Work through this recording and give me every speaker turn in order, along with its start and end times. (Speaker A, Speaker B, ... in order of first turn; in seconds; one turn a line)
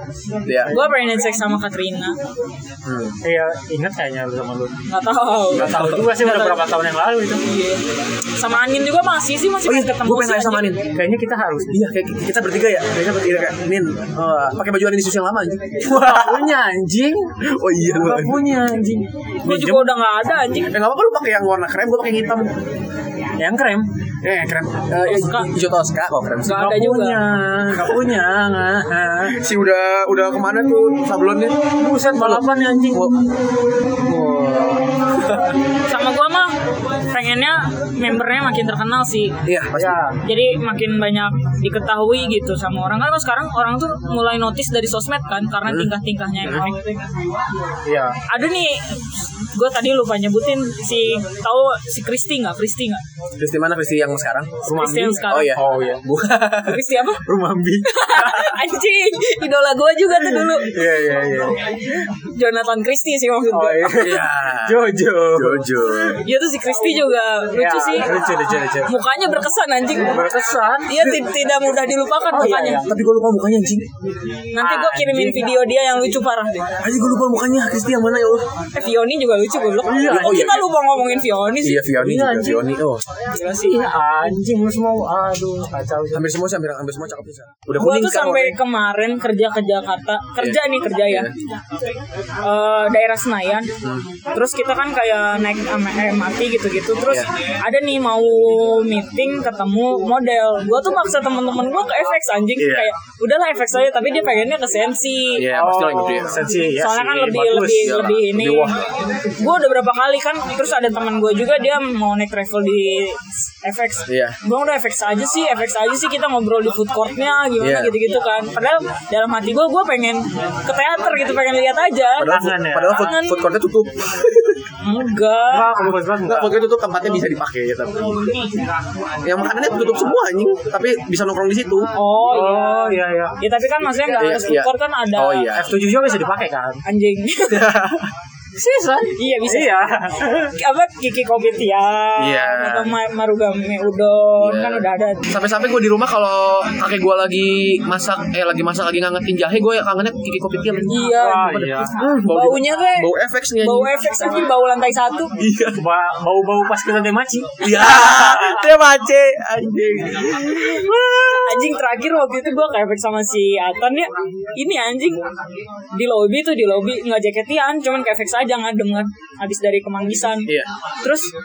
Speaker A: 0.4-0.8
Speaker B: 0.6-0.9
Speaker C: 0.7-2.2
Speaker A: 2.9-3.2
Speaker B: 3.2-4.8
Speaker C: 4.9-6.5
Speaker B: 5.5-7.4
Speaker A: 5.6-6.5
Speaker C: 7.4-7.8
Speaker C: 8.4-10.7
Speaker A: 9.7-10.9
Speaker B: 10.8-11.7
Speaker A: 11.7-16.5
Speaker B: 15.8-17.4
Speaker A: 17.4-18.4
Speaker B: 17.9-19.6
Speaker C: 19.4-20.7
Speaker A: 19.5-19.9
Speaker A: 20.7-22.5
Speaker B: 23.4-23.9
Speaker A: 24.2-26.7
Speaker C: 25.0-25.5
Speaker C: 26.4-27.2
Speaker B: 26.5-29.4
Speaker A: 29.3-33.2
Speaker B: 31.8-33.1
Speaker A: 34.0-35.5
Speaker C: 35.9-39.4
Speaker A: 39.5-40.1
Speaker B: 39.8-40.2
Speaker C: 40.2-47.0
Speaker B: 47.9-48.2
Speaker C: 48.3-53.0
Speaker A: 53.4-56.9
Speaker B: 54.6-56.0
Speaker C: 54.7-55.6
Speaker C: 56.6-57.3
Speaker B: 57.2-58.6
Speaker C: 57.8-60.8
Speaker B: 60.1-61.7
Speaker C: 62.1-64.2
Speaker B: 63.5-65.9
Speaker A: 63.9-66.2
Speaker C: 66.2-68.3
Speaker B: 67.6-69.0
Speaker C: 68.8-70.3
Speaker B: 70.0-71.1
Speaker C: 70.9-72.9
Speaker B: 72.3-72.9
Speaker A: 72.4-73.9
Speaker C: 74.5-76.7
Speaker B: 74.6-75.5
Speaker A: 76.8-78.5
Speaker C: 78.7-81.8
Speaker B: 79.8-80.6
Speaker A: 80.1-80.7
Speaker A: 81.6-83.0
Speaker B: 82.0-82.7
Speaker C: 83.3-83.8
Speaker B: 83.6-86.3
Speaker A: 86.1-88.6
Speaker C: 87.8-91.3
Speaker A: 90.4-91.3
Speaker C: 92.4-93.7
Speaker A: 93.8-94.1
Speaker C: 94.3-105.5
Speaker B: 102.6-102.9
Speaker A: 105.4-106.4
Speaker B: 105.5-108.7
Speaker C: 106.7-108.8
Speaker A: 107.7-108.8
Speaker C: 109.3-123.4
Speaker A: 114.1-114.4
Speaker A: 117.6-117.9
Speaker A: 122.2-124.6
Speaker B: 122.2-123.1
Speaker C: 124.8-125.8
Speaker B: 125.5-126.6
Speaker A: 126.2-128.3
Speaker A: 129.2-131.9
Speaker C: 131.9-135.5
Speaker B: 132.3-133.3
Speaker A: 134.2-135.7
Speaker B: 135.5-136.8
Speaker C: 136.8-137.7
Speaker A: 137.5-138.1
Speaker B: 138.6-140.6
Speaker C: 139.2-140.0
Speaker C: 140.5-145.3
Speaker A: 142.2-142.9
Speaker A: 144.4-150.9
Speaker C: 150.9-153.1
Speaker B: 151.0-151.9
Speaker A: 151.6-153.9
Speaker C: 153.6-155.3
Speaker A: 155.4-155.8
Speaker B: 155.8-158.5
Speaker A: 157.6-161.7
Speaker C: 161.3-165.3
Speaker C: 165.9-171.3